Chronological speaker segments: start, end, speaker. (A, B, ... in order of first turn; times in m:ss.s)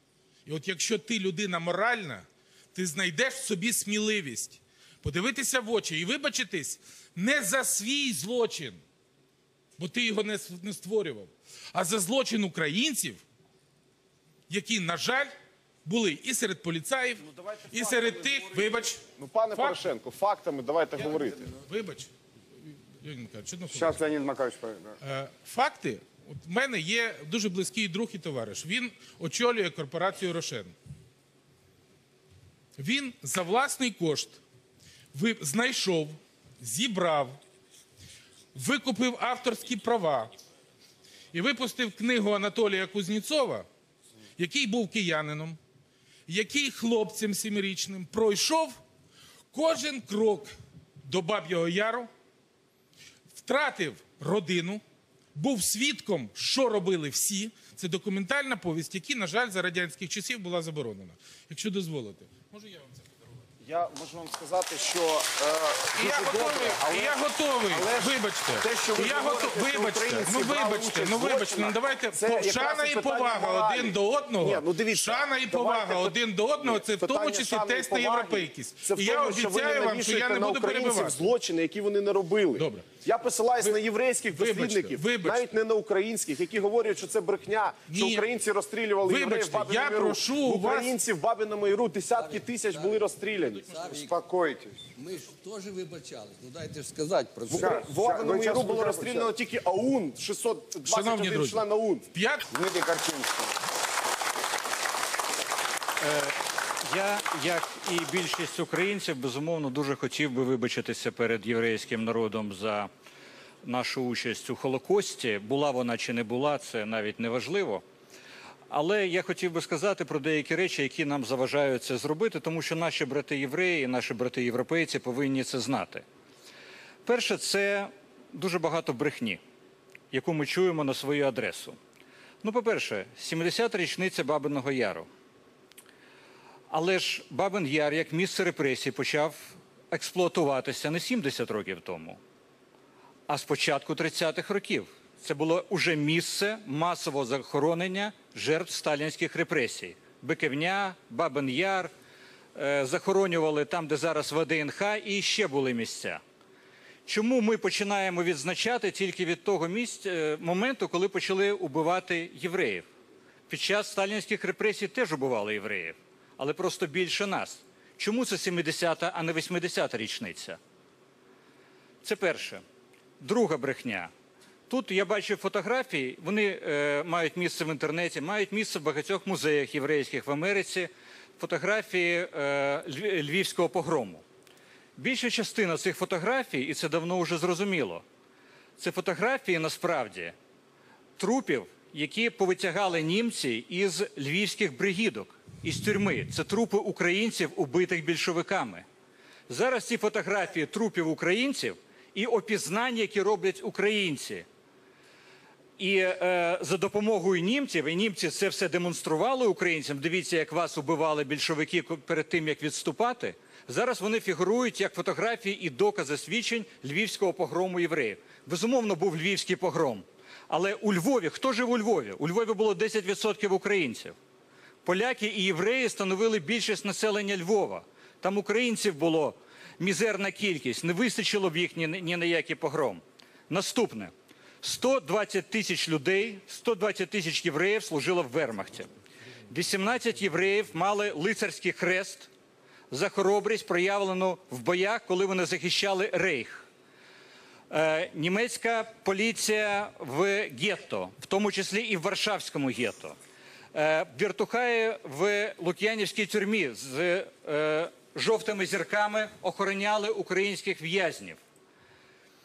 0:00.4-0:08.8 A
0:09.8-0:13.2 A
0:14.5-0:15.3 A
0:15.8-0:19.0 A
0:19.2-0:21.5 B
0:19.5-0:19.8 A
0:21.0-0:22.1 A
0:23.0-0:24.1 A
0:23.7-0:25.0 C
0:25.0-0:30.7 A
0:32.8-0:34.4 A
0:35.1-0:37.4 A
0:38.5-0:40.3 A
0:41.3-0:43.6 A
0:44.4-0:45.6 A
0:46.3-0:48.8 A
0:49.5-0:50.5 A
0:51.0-0:52.1 A
0:53.4-0:54.8 A
0:55.3-1:03.1 A
1:03.6-1:33.7 B
1:05.9-1:21.3 A
1:22.6-1:22.9 A
1:24.3-1:25.5 A
1:27.9-1:28.3 A
1:29.0-1:30.9 A
1:32.1-1:33.0 D
1:33.6-1:34.1 D
1:33.8-1:34.8 C
1:34.9-1:37.8 D
1:37.5-1:42.0 B
1:37.6-1:39.3 C
1:40.8-1:42.4 A
1:42.5-1:43.5 C
1:46.0-1:46.3 E
1:46.9-1:52.9 E
1:53.6-1:57.8 E
1:58.7-2:06.0 E
2:07.0-2:09.4 E
2:10.1-2:11.8 E
2:12.4-2:15.1 E
2:16.7-2:22.2 E
2:23.3-2:31.9 E
2:32.5-2:36.2 E
2:37.1-2:42.9 E
2:43.5-2:50.6 E
2:52.0-2:52.6 E
2:53.2-2:54.1 E
2:54.7-3:04.2 E
3:05.0-3:08.0 E
3:08.8-3:10.3 E
3:11.2-3:18.8 E
3:19.5-3:24.4 E
3:25.8-3:44.2 E
3:44.8-3:58.9 E
3:59.5-4:02.3 E
4:02.9-4:06.7 E
4:07.7-4:13.2 E
4:13.7-4:21.4 E